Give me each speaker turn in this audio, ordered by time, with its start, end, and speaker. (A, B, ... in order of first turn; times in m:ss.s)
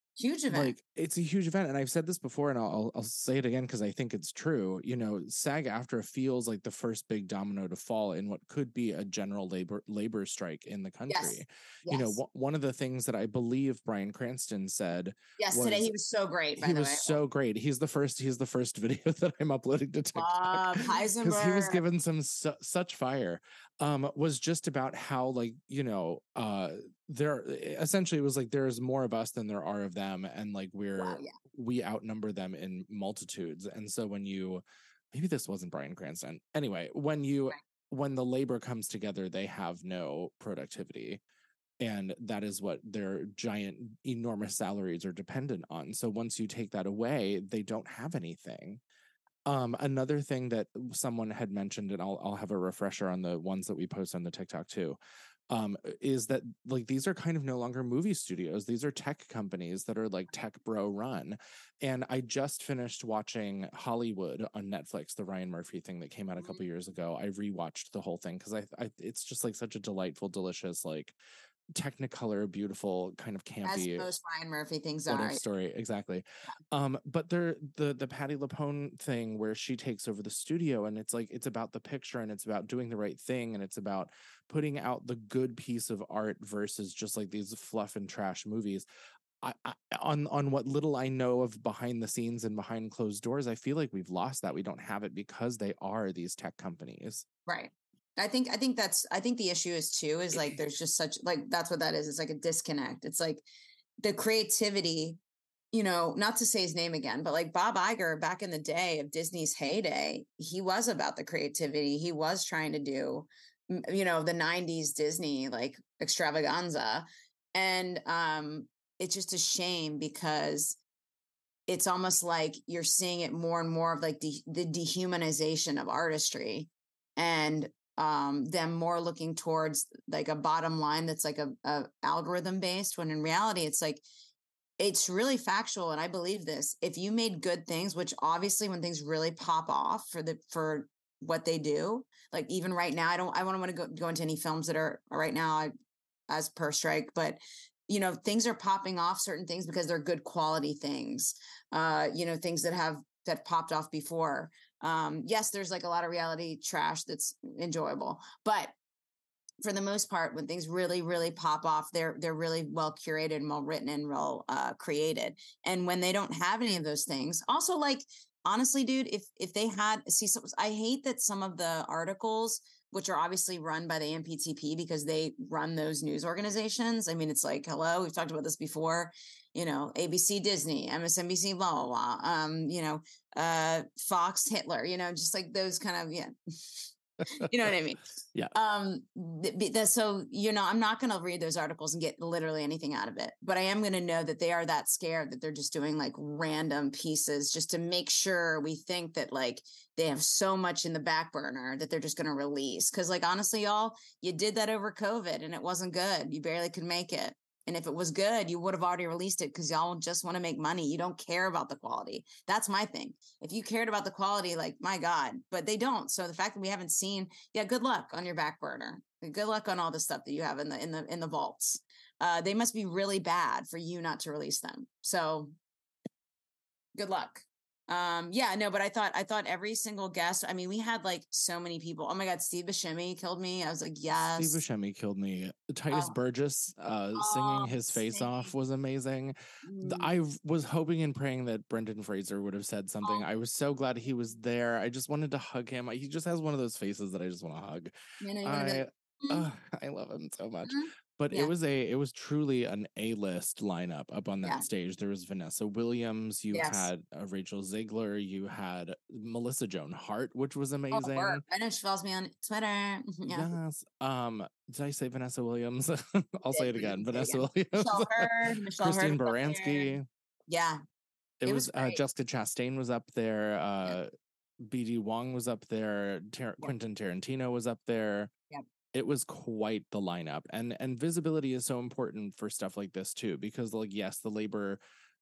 0:00.2-0:00.7 A
0:00.5-0:15.9 B
0:11.1-0:12.2 A
0:15.4-0:17.2 A
0:16.6-0:41.2 B
0:20.1-0:21.8 A
0:31.0-0:31.4 A
0:41.8-0:48.8 B
0:49.5-0:55.0 B
0:55.5-1:11.1 B
1:11.7-1:14.1 B
1:13.6-1:15.4 A
1:15.1-1:28.8 B
1:29.4-1:37.2 B
1:37.5-1:43.4 A
1:44.0-1:45.2 A
1:45.7-2:00.8 A
2:01.7-2:14.0 A
2:14.8-2:25.7 A
2:26.3-2:38.7 A
2:39.6-3:45.5 A
3:46.9-3:54.6 A
3:54.4-4:07.9 B
3:55.9-3:56.2 A
3:57.2-3:58.5 A
3:59.6-4:00.1 A
4:08.2-4:09.4 A
4:08.4-4:21.4 B
4:10.6-4:11.5 A
4:16.5-4:16.9 A
4:20.9-4:23.5 A
4:23.3-4:30.0 B
4:26.5-4:30.0 A
4:30.5-4:30.8 A
4:31.4-4:34.1 B
4:31.4-4:32.0 A
4:34.6-4:38.3 B
4:38.9-4:44.8 B